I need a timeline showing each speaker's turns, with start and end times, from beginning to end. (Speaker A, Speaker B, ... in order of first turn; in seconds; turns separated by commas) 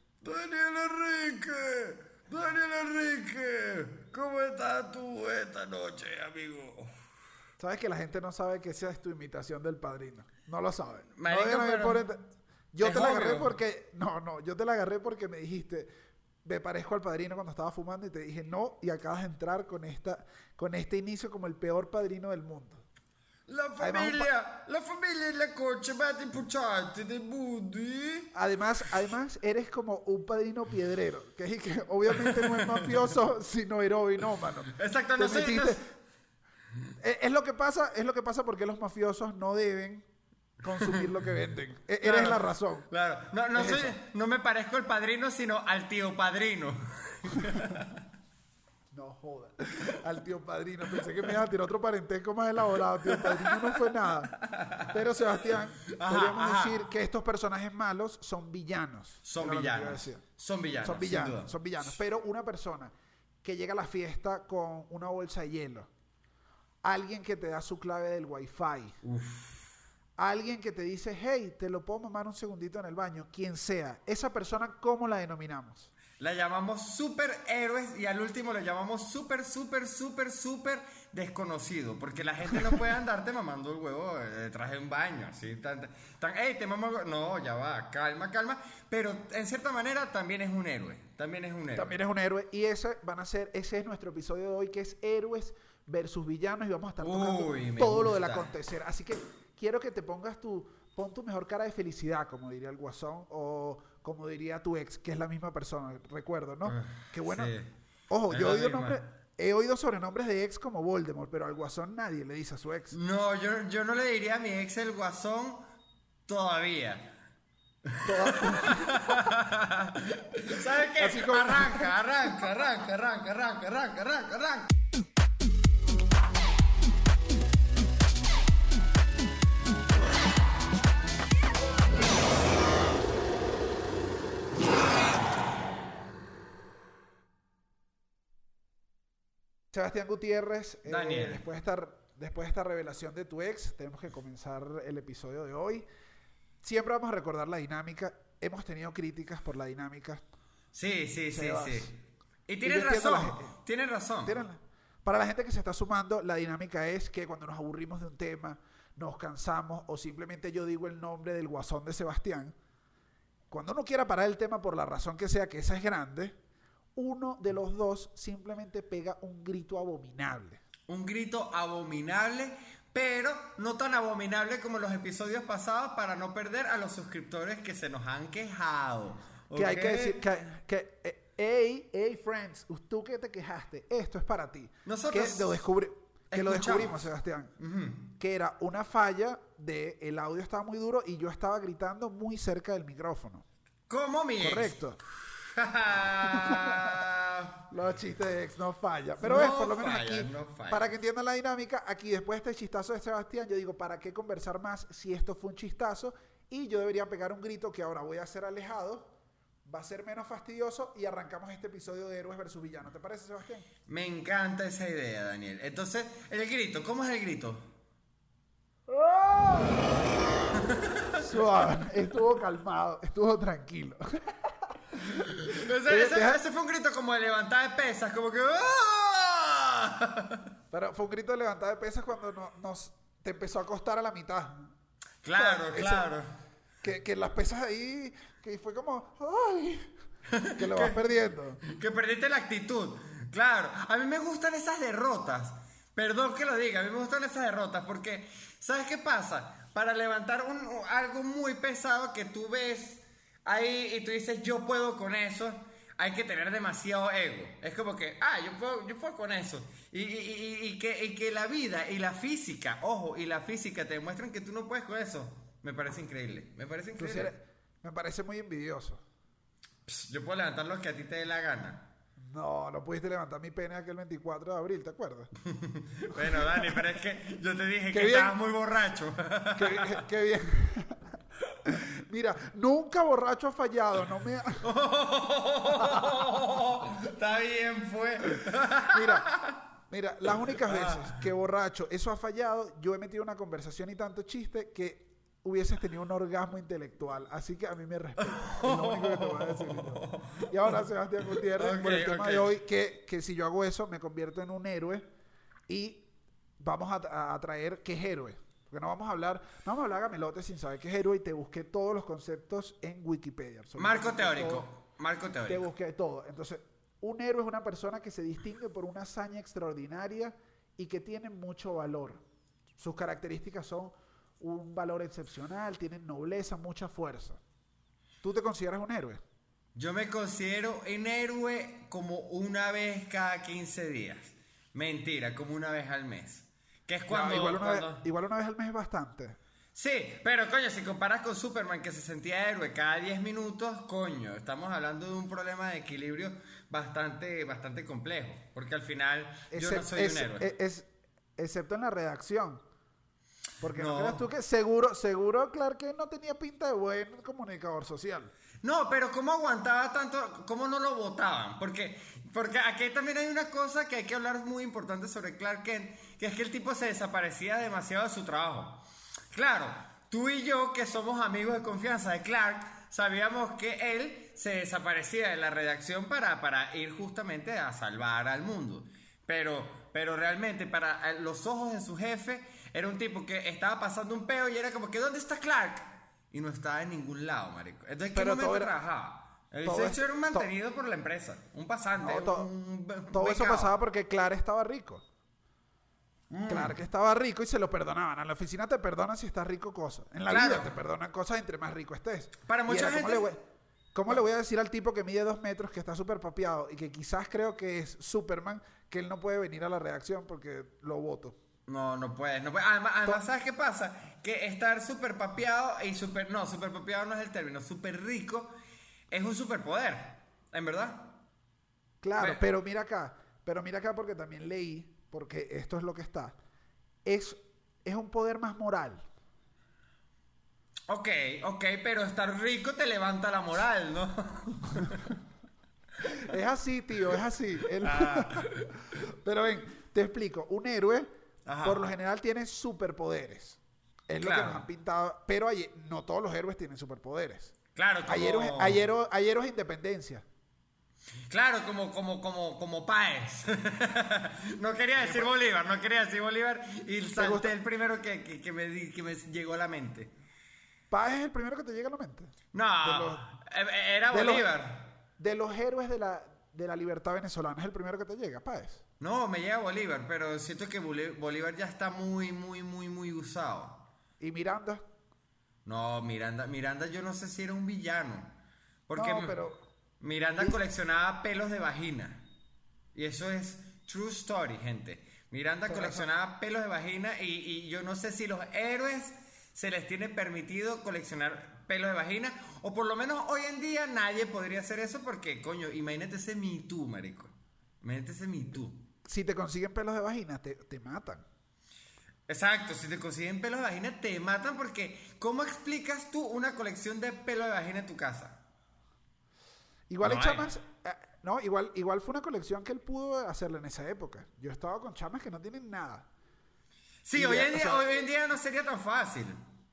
Speaker A: 0.2-6.9, Speaker B: 7.6-15.9, Speaker A: 11.2-12.0, Speaker A: 12.8-13.6, Speaker B: 16.4-22.8, Speaker A: 23.5-28.3, Speaker B: 23.8-24.3, Speaker B: 28.3-35.8, Speaker A: 32.1-33.1, Speaker A: 34.7-35.8, Speaker B: 37.0-40.1, Speaker B: 40.6-42.9, Speaker A: 40.8-41.1, Speaker A: 42.0-48.0, Speaker B: 43.5-44.0, Speaker B: 48.9-54.3, Speaker A: 53.0-56.8, Speaker B: 54.9-60.2, Speaker A: 59.2-61.5, Speaker B: 60.8-62.9, Speaker B: 63.4-65.9, Speaker B: 66.8-69.0, Speaker A: 69.0-69.7, Speaker B: 70.2-75.9, Speaker A: 76.2-91.9, Speaker B: 91.8-107.5, Speaker A: 97.0-98.5, Speaker A: 106.7-107.7, Speaker B: 108.1-113.0, Speaker A: 108.3-109.0, Speaker A: 112.9-115.7, Speaker A: 116.3-117.1, Speaker A: 117.8-124.7, Speaker B: 118.0-119.2, Speaker B: 121.0-121.9, Speaker B: 139.7-145.8, Speaker A: 140.9-141.4, Speaker B: 146.6-150.2, Speaker A: 150.7-151.9, Speaker B: 151.3-151.9, Speaker A: 152.5-154.4, Speaker B: 152.6-153.6, Speaker B: 154.2-162.5, Speaker B: 163.5-166.4, Speaker B: 167.0-170.6, Speaker A: 170.9-180.2, Speaker B: 179.5-187.5, Speaker A: 184.8-185.6, Speaker A: 186.3-187.1, Speaker A: 187.6-188.1, Speaker B: 188.2-193.4, Speaker A: 193.9-194.8, Speaker B: 194.4-195.0, Speaker A: 195.3-197.6, Speaker B: 196.3-197.0, Speaker B: 197.7-209.1, Speaker A: 199.2-200.9, Speaker B: 209.7-213.7, Speaker A: 213.9-217.7, Speaker B: 218.9-220.0, Speaker A: 220.7-221.1, Speaker B: 221.2-224.3, Speaker A: 225.0-230.4, Speaker B: 225.6-226.4, Speaker B: 230.7-234.7, Speaker A: 235.2-236.3, Speaker B: 235.3-236.1, Speaker B: 236.8-239.9, Speaker A: 240.3-241.0, Speaker B: 240.6-241.6, Speaker A: 241.6-267.3, Speaker B: 267.0-269.0, Speaker A: 269.9-271.9, Speaker B: 272.2-275.3, Speaker A: 275.5-280.0, Speaker B: 276.1-276.8, Speaker B: 277.9-278.4, Speaker B: 279.6-281.0, Speaker B: 281.7-284.7, Speaker A: 284.6-289.6, Speaker B: 288.9-289.3, Speaker B: 289.9-305.1, Speaker A: 290.6-291.1, Speaker A: 298.2-302.5, Speaker B: 305.7-306.1, Speaker B: 306.6-314.7, Speaker A: 313.8-315.7, Speaker B: 315.5-322.2, Speaker B: 322.8-327.4, Speaker B: 328.2-329.2, Speaker A: 329.8-338.0, Speaker B: 337.1-339.4, Speaker A: 339.8-350.5, Speaker B: 349.5-352.6, Speaker B: 353.6-358.3, Speaker A: 353.7-354.2, Speaker A: 358.6-393.7, Speaker B: 388.1-388.7, Speaker B: 389.6-390.5, Speaker B: 392.0-392.5, Speaker B: 393.1-395.1, Speaker A: 396.3-396.8, Speaker B: 396.5-403.4, Speaker A: 400.3-400.7, Speaker A: 402.5-403.3, Speaker B: 403.9-411.4, Speaker A: 411.7-418.6, Speaker A: 419.1-421.1, Speaker B: 422.0-426.4, Speaker B: 427.1-429.1, Speaker A: 430.9-435.1, Speaker B: 436.1-441.1, Speaker A: 437.8-438.6, Speaker A: 441.5-441.8, Speaker B: 441.6-447.5, Speaker A: 444.2-444.6, Speaker A: 447.8-448.8, Speaker B: 448.1-450.2, Speaker A: 451.3-460.1, Speaker B: 455.0-455.3, Speaker B: 457.2-457.5, Speaker B: 460.9-463.2, Speaker A: 462.5-465.0, Speaker B: 464.1-464.5, Speaker B: 465.2-468.8, Speaker A: 469.0-473.9, Speaker B: 474.2-474.8, Speaker A: 475.6-478.4, Speaker A: 478.9-479.4, Speaker B: 478.9-479.6, Speaker A: 480.0-482.3, Speaker A: 482.9-498.9, Speaker B: 485.7-486.1, Speaker B: 499.1-501.2, Speaker A: 502.3-508.4, Speaker B: 509.9-516.1, Speaker A: 510.0-510.5, Speaker A: 517.0-519.4, Speaker B: 517.1-518.1